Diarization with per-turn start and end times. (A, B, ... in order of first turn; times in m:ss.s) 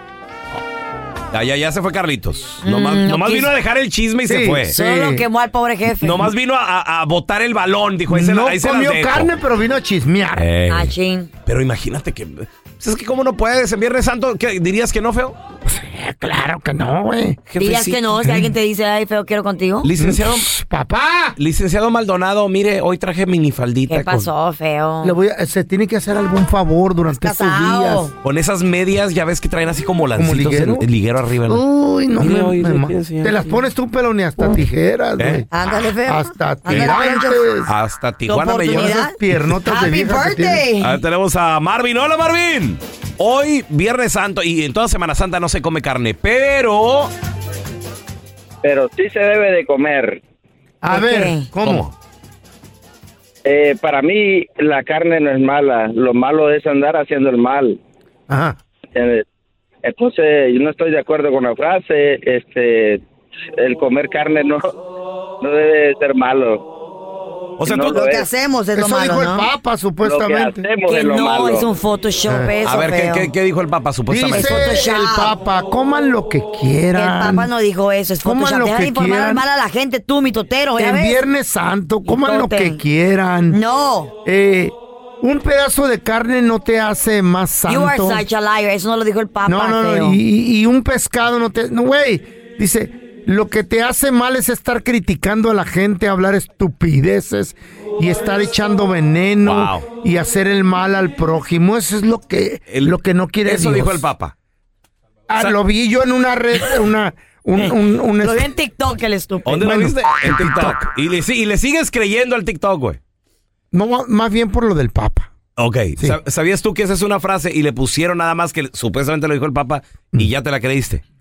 0:01.3-0:04.8 A
0:02.6-0:03.5 B
0:04.3-0:05.3 C
0:04.7-0:06.3 B
0:06.0-0:09.3 A
0:08.1-0:10.5 C
0:10.4-0:11.0 A
0:10.7-0:11.3 B
0:11.5-0:15.4 A
0:15.6-0:17.4 C
0:17.5-0:18.0 A
0:17.6-0:19.9 B
0:18.2-0:18.5 C
0:19.8-0:20.5 A
0:20.0-0:21.4 C
0:21.4-0:24.3 A
0:23.9-0:25.2 B
0:25.0-0:28.0 C
0:27.2-0:28.1 B
0:28.2-0:31.6 A
0:30.2-0:30.8 C
0:31.5-0:35.5 C
0:32.2-0:33.6 A
0:35.2-0:35.4 A
0:35.5-0:37.4 B
0:36.0-0:37.7 C
0:36.7-0:36.9 A
0:37.7-0:39.0 A
0:38.3-0:41.0 B
0:38.5-0:40.7 C
0:40.8-0:47.1 A
0:48.6-0:50.2 D
0:50.8-0:51.9 C
0:50.9-0:51.5 B
0:51.6-0:51.9 A
0:53.4-0:57.8 D
0:58.3-0:58.6 C
0:59.0-0:59.2 D
0:59.8-1:03.0 D
1:03.6-1:04.8 D
1:05.4-1:06.7 D
1:07.6-1:08.0 A
1:07.6-1:08.3 D
1:07.9-1:09.5 B
1:08.7-1:10.7 C
1:10.0-1:11.7 D
1:10.9-1:13.3 B
1:12.3-1:12.5 C
1:12.6-1:14.8 A
1:14.1-1:17.5 C
1:14.3-1:15.4 B
1:17.0-1:21.2 B
1:18.2-1:19.4 C
1:20.8-1:23.6 C
1:22.1-1:22.8 B
1:23.5-1:24.1 B
1:24.2-1:28.2 C
1:27.7-1:30.2 B
1:29.5-1:44.0 C
1:39.4-1:39.8 A
1:42.7-1:44.3 A
1:45.3-1:48.5 C
1:48.2-1:49.7 B
1:49.4-1:53.0 A
1:49.6-1:50.8 C
1:53.7-1:55.3 C
1:55.6-2:01.0 A